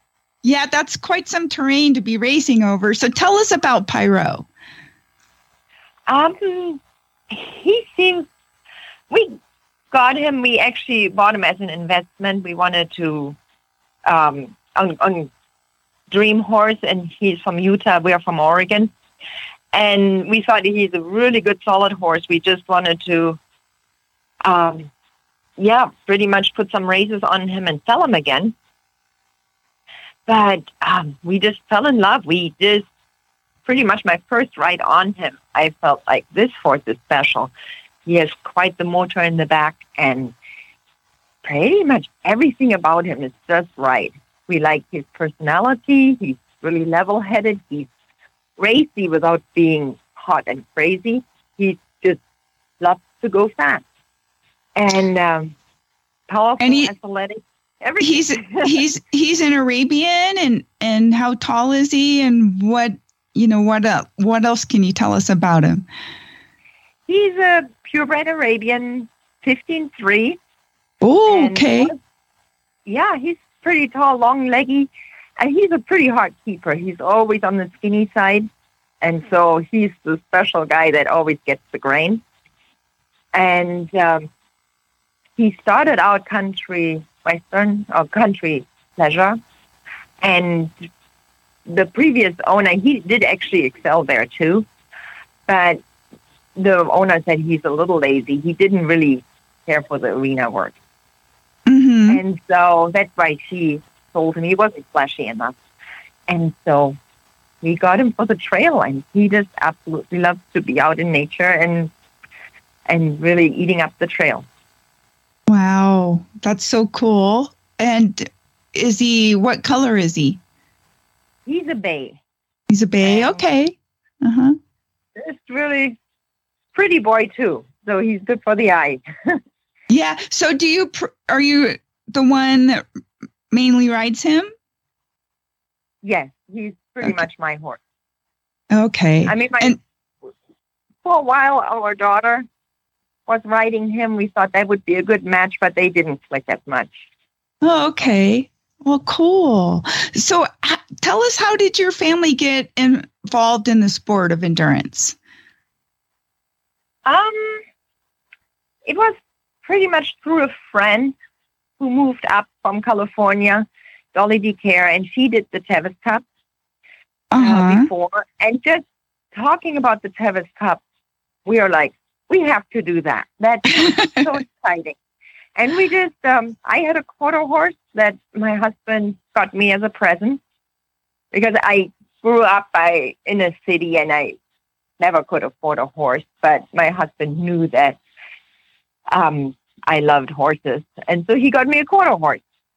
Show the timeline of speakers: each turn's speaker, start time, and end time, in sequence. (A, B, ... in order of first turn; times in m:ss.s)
0:00.4-0:04.5 A
0:06.1-0:08.3 B
0:09.1-0:09.4 B
0:09.9-0:13.4 B
0:14.1-0:15.3 B
0:16.1-0:18.9 B
0:19.7-0:23.4 B
0:24.4-0:24.9 B
0:25.6-0:28.5 B
0:30.3-0:32.9 B
0:33.7-0:37.5 B
0:38.1-0:40.3 B
0:41.4-0:47.9 B
0:48.6-0:52.2 B
0:52.8-0:53.8 B
0:54.8-0:55.5 B
0:56.3-0:58.8 B
0:56.6-0:56.9 A
0:58.0-1:05.8 A
1:07.1-1:10.4 B
1:11.0-1:11.9 A
1:11.3-1:12.0 B
1:12.9-1:18.5 B
1:19.0-1:22.2 B
1:23.3-1:24.3 B
1:25.4-1:29.4 B
1:30.2-1:30.7 B
1:31.7-1:34.7 B
1:35.5-1:35.8 B
1:36.6-1:40.8 B
1:41.7-1:42.2 A
1:42.1-1:45.6 B
1:46.3-1:47.0 B
1:47.6-1:51.9 B
1:52.9-1:54.4 B
1:55.5-2:00.4 A
2:01.5-2:02.2 B
2:02.7-2:04.6 A
2:03.0-2:03.4 B
2:05.2-2:06.0 B
2:06.7-2:09.4 B
2:09.9-2:12.8 A
2:13.5-2:14.5 A
2:16.0-2:17.8 B
2:18.7-2:19.8 A
2:19.3-2:19.8 B
2:21.0-2:22.5 B
2:23.3-2:26.9 B
2:27.6-2:35.2 A
2:37.1-2:37.6 B
2:38.9-2:41.1 B
2:41.8-2:46.2 B
2:47.3-2:47.9 A
2:47.4-2:50.8 B
2:51.5-2:55.0 B
2:53.8-2:54.2 A
2:55.6-3:00.4 B
3:01.3-3:04.4 B
3:05.0-3:08.0 B
3:09.1-3:12.4 B